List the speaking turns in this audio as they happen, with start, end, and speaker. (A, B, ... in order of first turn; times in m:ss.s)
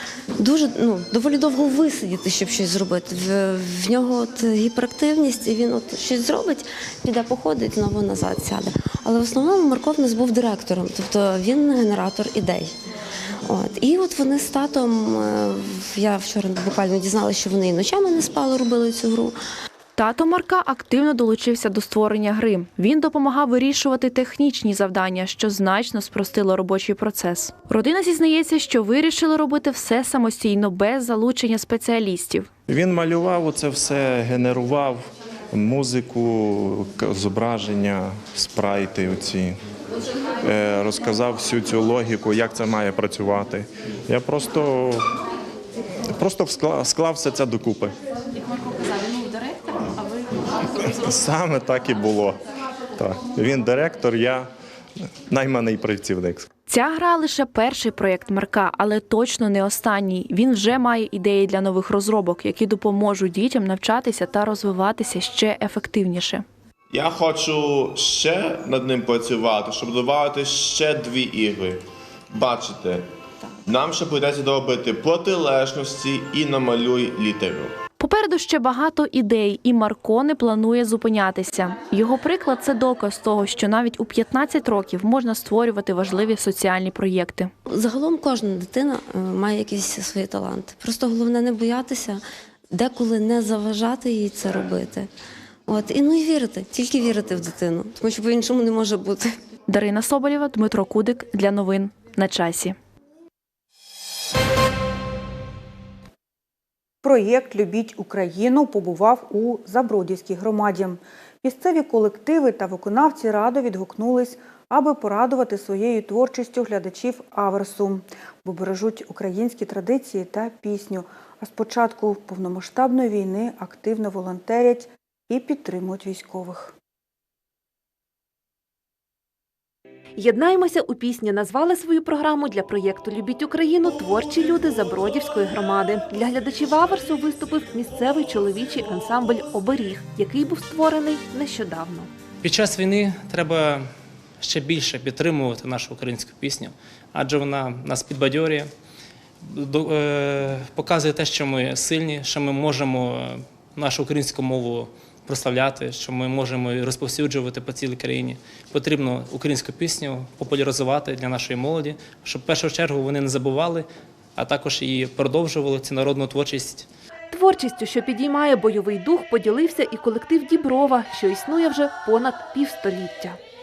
0:00.4-0:12.7 A
0:13.4-0:19.4 A
0:20.0-0:32.5 B
0:32.7-0:39.6 C
0:40.4-0:45.1 C
0:46.1-0:48.0 C
0:50.7-0:52.4 C
0:53.0-0:54.5 C
0:55.3-0:56.5 C
0:56.7-1:06.4 B
1:06.9-1:13.1 D
1:13.6-1:17.7 D
1:18.0-1:27.5 B
1:27.7-1:35.1 A
1:35.7-1:39.3 A
1:39.7-1:42.8 B
1:47.0-2:06.7 E
2:10.2-2:22.1 F
2:22.4-2:23.9 G
2:24.4-2:28.7 G
2:29.4-2:46.9 G
2:47.3-2:53.4 F